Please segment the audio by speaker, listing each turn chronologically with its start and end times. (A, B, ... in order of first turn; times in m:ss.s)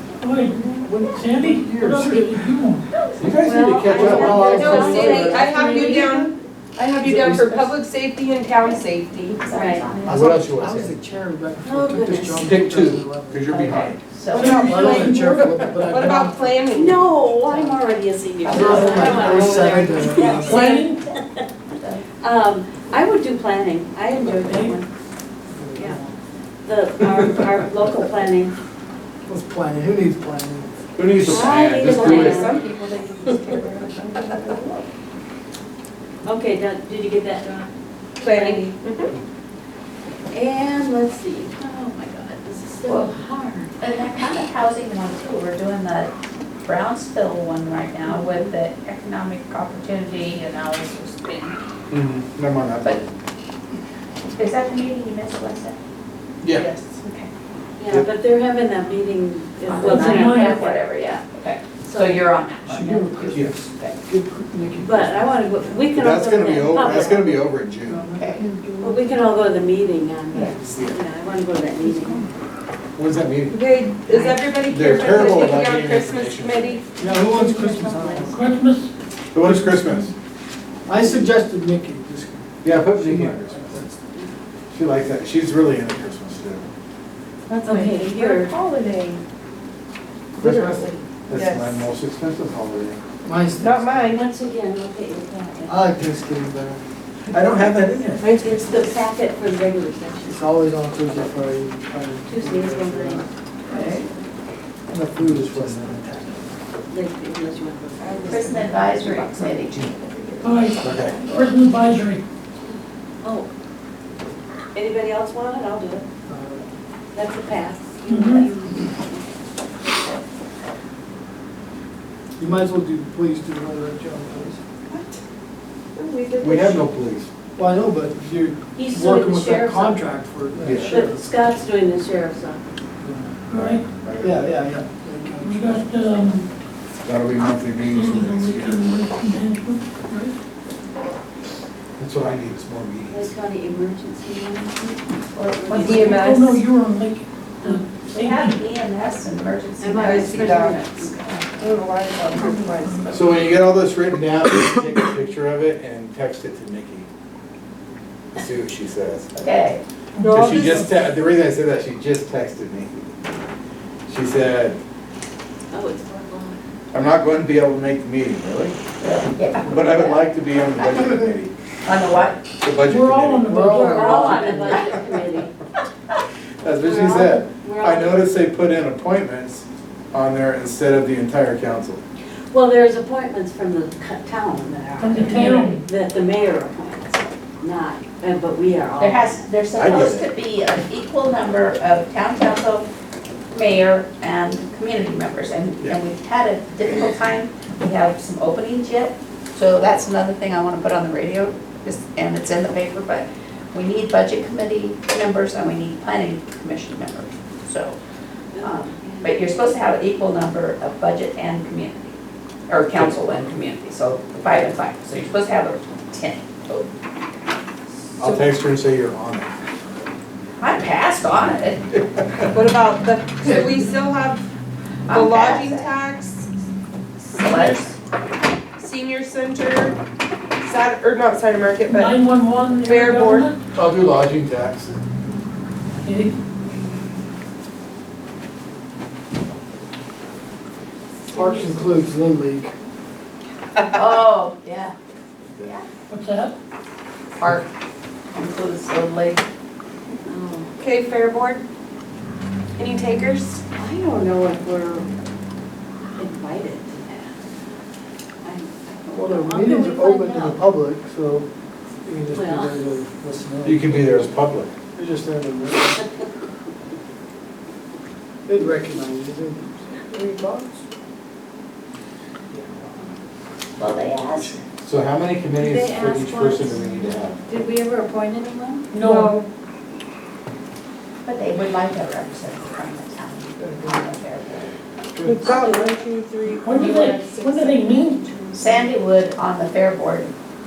0:00.2-0:02.8 A
0:00.8-0:02.4 B
0:03.2-0:04.9 C
0:03.2-0:06.4 D
0:03.9-0:05.7 B
0:04.6-0:09.4 E
0:07.0-0:07.7 B
0:08.6-0:10.3 F
0:09.5-0:09.9 D
0:10.0-0:13.5 B
0:10.1-0:10.9 C
0:11.6-0:12.5 D
0:12.4-0:14.0 C
0:13.5-0:15.0 F
0:14.3-0:16.6 B
0:14.4-0:15.4 A
0:14.5-0:15.2 E
0:15.3-0:15.7 C
0:15.8-0:16.9 E
0:16.7-0:21.4 D
0:17.4-0:17.8 B
0:18.4-0:19.6 F
0:18.5-0:20.7 B
0:20.3-0:21.0 A
0:21.8-0:22.0 F
0:22.2-0:24.9 D
0:24.3-0:24.8 A
0:25.5-0:26.1 B
0:25.7-0:26.0 D
0:26.6-0:28.5 D
0:29.2-0:30.8 B
0:31.0-0:32.5 C
0:31.2-0:32.6 D
0:31.9-0:34.8 E
0:36.2-0:37.7 D
0:38.2-0:39.1 E
0:38.2-0:38.7 D
0:40.3-0:43.7 D
0:42.8-0:43.1 F
0:43.8-0:46.1 F
0:46.6-0:51.6 F
0:51.9-0:53.0 C
0:54.4-0:55.8 F
0:56.6-0:57.0 E
0:57.8-1:00.8 D
0:59.6-1:04.0 F
0:59.7-1:00.7 A
1:01.8-1:02.3 D
1:02.7-1:05.8 B
1:04.8-1:07.5 D
1:05.9-1:08.1 C
1:07.9-1:09.1 B
1:08.1-1:08.4 F
1:08.8-1:12.3 D
1:10.4-1:10.8 B
1:10.6-1:11.0 C
1:11.8-1:12.3 B
1:13.0-1:13.6 C
1:13.5-1:16.8 E
1:14.1-1:14.4 D
1:14.6-1:16.8 C
1:17.0-1:18.4 B
1:17.1-1:18.3 D
1:18.3-1:18.9 A
1:19.3-1:20.1 C
1:19.5-1:20.0 A
1:20.8-1:23.9 B
1:22.6-1:23.9 C
1:24.7-1:26.7 C
1:27.5-1:29.2 E
1:27.6-1:28.5 D
1:30.4-1:31.8 E
1:30.4-1:33.0 C
1:33.2-1:34.2 B
1:33.6-1:34.2 E
1:34.0-1:35.9 D
1:35.7-1:36.8 B
1:37.3-1:38.2 C
1:38.2-1:39.0 E
1:38.6-1:40.4 D
1:40.2-1:43.8 B
1:42.3-1:44.3 D
1:43.7-1:44.0 F
1:44.9-1:46.5 B
1:45.2-1:46.0 C
1:46.9-1:49.3 D
1:48.2-1:51.5 F
1:50.4-1:52.2 A
1:50.8-1:51.2 C
1:53.2-1:53.5 D
1:54.7-1:56.0 D
1:56.3-1:56.7 B
1:57.1-1:59.2 D
1:58.1-1:58.5 A
2:02.4-2:04.6 B
2:04.9-2:05.2 E
2:05.9-2:06.9 E
2:06.4-2:07.3 C
2:07.6-2:11.3 B
2:08.7-2:10.1 D
2:10.6-2:11.0 C
2:10.8-2:12.6 D
2:13.0-2:13.3 B
2:13.5-2:13.8 A
2:13.5-2:14.5 C
2:14.2-2:15.9 B
2:15.4-2:16.5 A
2:17.0-2:18.9 C
2:17.9-2:20.3 A
2:22.0-2:23.3 C
2:23.1-2:26.4 D
2:25.7-2:26.6 E
2:26.1-2:28.6 A
2:28.0-2:31.2 F
2:29.8-2:31.5 D
2:30.0-2:30.8 E
2:31.6-2:33.3 E
2:32.4-2:33.0 A
2:33.1-2:37.1 C
2:38.3-2:39.3 C
2:39.3-2:39.8 F
2:40.2-2:40.8 A
2:40.2-2:40.9 E
2:40.3-2:43.1 C
2:44.1-2:44.8 C
2:45.7-2:46.6 D
2:46.9-2:48.8 C
2:49.0-2:50.2 F
2:49.6-2:51.5 C
2:50.8-2:51.3 F
2:51.8-2:52.4 F
2:52.6-2:53.5 C
2:52.8-2:54.7 A
2:53.4-2:54.9 B
2:53.7-2:55.5 D
2:54.6-2:55.0 F
2:56.6-3:02.0 C
2:56.8-2:58.2 D
3:02.5-3:09.5 D
3:05.0-3:05.8 A
3:09.0-3:12.9 F
3:09.8-3:10.2 C
3:13.5-3:28.0 F
3:28.5-3:29.4 D
3:28.6-3:32.2 F
3:32.7-3:36.9 F
3:38.2-3:39.5 C
3:38.2-3:38.5 E
3:40.6-3:41.8 F
3:42.2-3:42.4 C
3:42.5-3:44.4 E
3:43.4-3:43.9 F
3:45.1-3:45.9 F
3:45.1-3:46.5 E
3:47.2-3:47.9 F
3:47.3-3:47.9 E
3:48.8-3:50.0 E
3:50.6-3:52.2 E
3:51.8-3:53.6 A
3:52.8-3:53.5 E
3:53.7-3:55.0 C
3:56.0-3:56.4 A
4:01.3-4:02.7 B
4:01.3-4:01.8 D
4:03.9-4:04.9 F
4:06.1-4:06.6 A
4:07.4-4:07.7 F
4:08.3-4:09.4 F
4:10.2-4:10.7 D
4:10.8-4:11.6 E
4:12.8-4:13.6 E
4:13.7-4:15.1 D
4:16.1-4:17.3 D
4:18.4-4:20.6 D
4:19.1-4:21.5 B
4:22.0-4:24.3 B
4:22.3-4:22.8 D
4:23.6-4:24.7 C
4:24.9-4:26.0 B
4:28.4-4:30.0 B
4:30.1-4:30.7 E
4:32.5-4:32.8 B
4:33.8-4:34.6 F
4:34.4-4:37.4 C
4:35.6-4:36.8 D
4:37.5-4:38.9 D
4:38.9-4:39.4 A
4:39.0-4:39.5 E
4:41.2-4:44.7 F
4:45.1-4:45.5 B
4:45.2-4:48.8 E
4:45.4-4:45.9 D
4:46.6-4:48.2 A
4:48.6-4:50.3 F